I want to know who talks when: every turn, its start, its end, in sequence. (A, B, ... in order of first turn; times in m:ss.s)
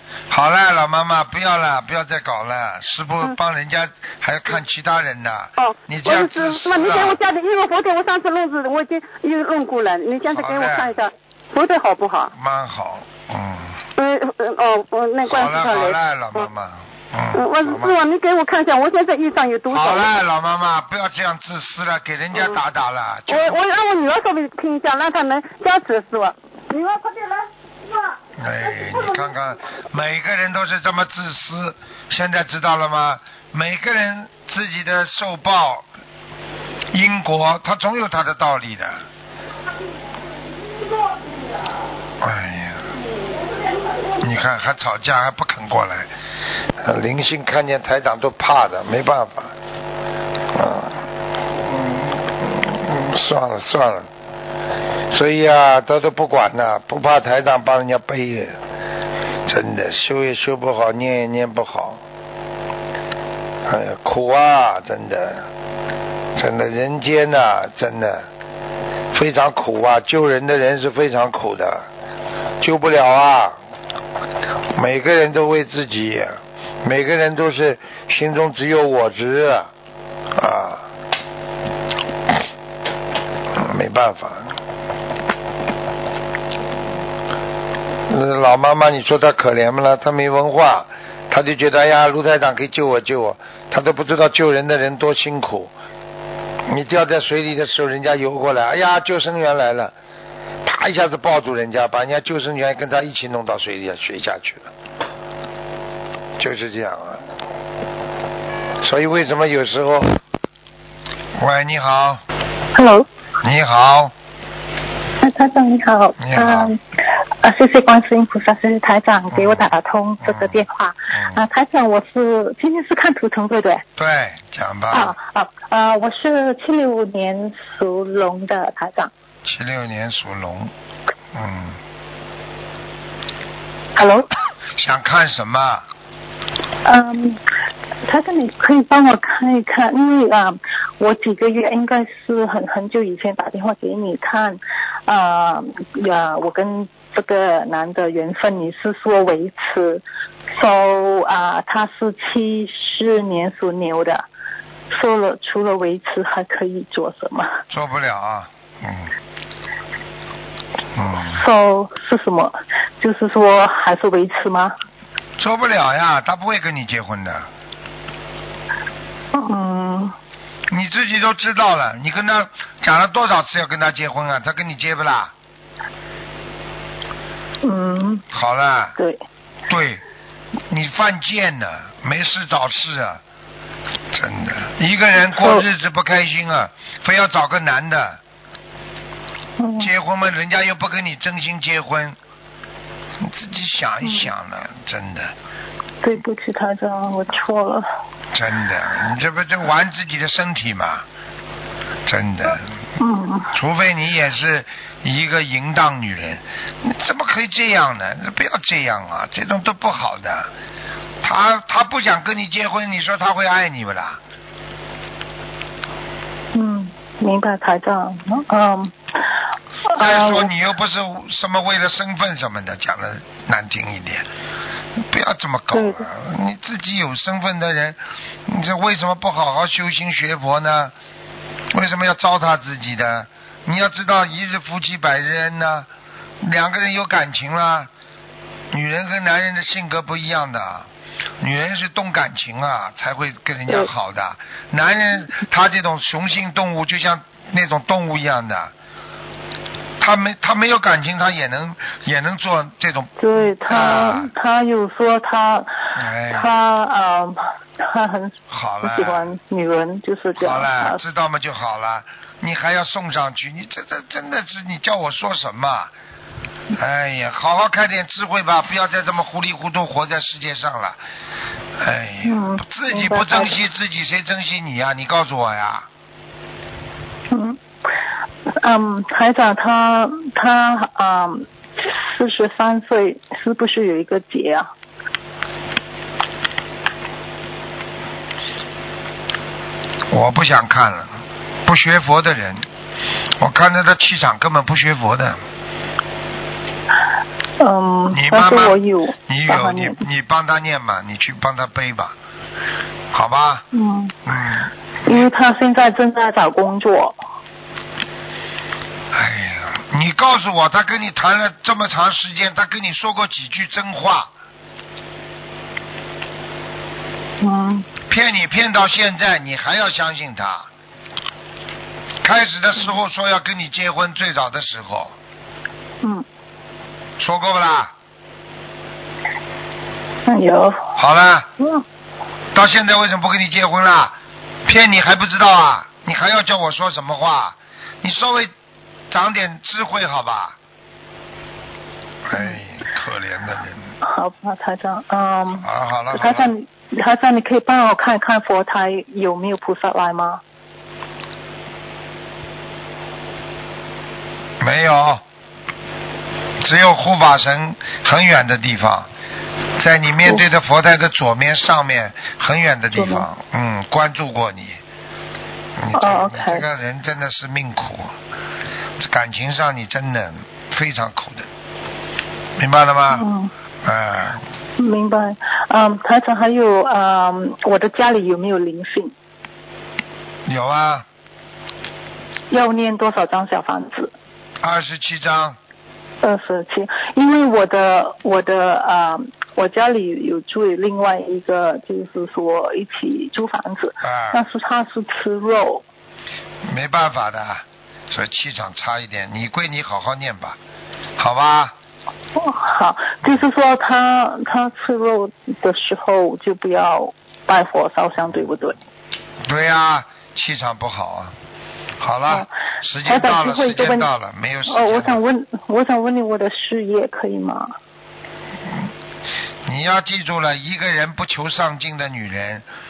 0:00.3-0:07.2 A
0:05.6-0:12.3 B
0:10.3-0:10.9 A
0:12.3-0:13.8 A
0:14.0-0:16.4 B
0:15.2-0:18.0 A
0:17.3-0:20.1 B
0:19.7-0:23.6 A
0:23.3-0:29.3 B
0:28.4-0:35.9 A
0:36.9-0:39.0 A
0:42.2-0:42.9 A
0:44.2-0:46.1 A
0:46.7-0:49.6 A
0:50.5-0:54.1 A
0:55.1-0:58.6 A
0:59.5-1:02.0 A
1:03.6-1:05.5 A
1:06.4-1:08.3 A
1:09.1-1:11.9 A
1:12.6-1:13.6 A
1:14.7-1:19.7 A
1:20.4-1:20.9 A
1:23.5-1:24.6 A
1:28.1-1:35.7 A
1:36.7-1:39.9 A
1:40.6-1:44.7 A
1:46.4-1:47.3 A
1:48.8-1:50.2 A
1:51.4-1:52.2 A
1:52.7-1:53.1 C
1:53.4-1:54.1 A
1:55.2-1:56.8 C
1:56.2-1:56.7 A
1:57.4-2:03.8 C
1:59.3-1:59.7 A
2:00.2-2:01.4 A
2:04.0-2:05.2 A
2:04.9-2:09.1 C
2:09.4-2:10.7 A
2:11.3-2:11.8 A
2:14.0-2:14.3 C
2:14.8-2:15.9 A
2:16.8-2:17.4 C
2:18.0-2:34.3 C
2:34.9-2:37.6 C
2:37.7-2:39.1 A
2:41.0-2:41.4 A
2:41.2-2:44.8 C
2:45.4-2:47.5 A
2:49.3-2:50.2 C
2:50.7-2:55.3 A
2:57.6-2:58.3 C
2:58.3-2:59.0 A
2:59.7-3:00.0 A
3:00.7-3:03.2 A
3:04.1-3:08.2 A
3:05.4-3:05.6 C
3:09.6-3:09.9 C
3:09.8-3:12.2 A
3:13.2-3:15.3 A
3:14.0-3:14.3 C
3:16.0-3:17.9 C
3:18.3-3:21.0 A
3:22.1-3:22.7 A
3:23.0-3:23.5 C
3:23.5-3:30.5 A
3:31.2-3:34.2 A
3:36.5-3:39.4 C
3:39.9-3:40.5 C
3:40.0-3:44.3 A
3:45.0-3:50.9 A
3:51.7-3:55.9 A
3:56.4-3:57.9 A
3:58.7-4:00.9 A
4:01.4-4:08.7 A
4:10.0-4:14.3 A
4:13.2-4:21.0 C
4:16.0-4:16.5 A
4:18.5-4:19.3 A
4:20.4-4:25.9 A
4:26.7-4:31.0 A
4:31.8-4:35.9 A
4:32.2-4:33.6 C
4:37.3-4:37.6 C
4:38.6-4:44.7 C
4:50.1-4:52.7 A
4:53.4-4:55.4 A
4:57.6-5:00.0 C
4:58.1-5:02.2 A
5:03.1-5:03.6 A
5:03.7-5:04.2 C
5:04.3-5:05.2 A
5:05.1-5:07.2 C
5:09.1-5:14.3 A
5:17.4-5:17.9 C
5:18.1-5:20.7 A
5:22.2-5:25.2 A
5:27.2-5:27.9 A
5:30.3-5:31.0 C
5:31.0-5:31.5 A
5:32.5-5:38.5 A
5:39.1-5:40.6 A
5:42.2-5:43.9 A
5:44.0-5:50.4 C
5:45.5-5:46.5 A
5:54.6-5:55.2 A
5:56.6-5:59.1 A
5:59.8-6:04.8 A
6:03.0-6:03.3 C
6:05.8-6:08.1 A
6:06.0-6:06.6 C
6:09.0-6:11.5 A
6:12.6-6:13.3 A
6:13.1-6:13.5 C
6:13.8-6:14.4 A
6:14.8-6:19.1 C
6:20.5-6:21.1 A
6:22.5-6:24.1 C
6:24.6-6:25.6 A
6:26.2-6:35.8 C
6:34.0-6:34.4 A
6:36.7-6:40.6 A
6:41.2-6:41.8 A
6:42.4-6:48.8 C
6:49.5-6:51.4 A
6:52.0-6:55.2 A
6:53.1-6:54.1 C
6:54.7-6:57.8 C
6:59.6-7:02.7 A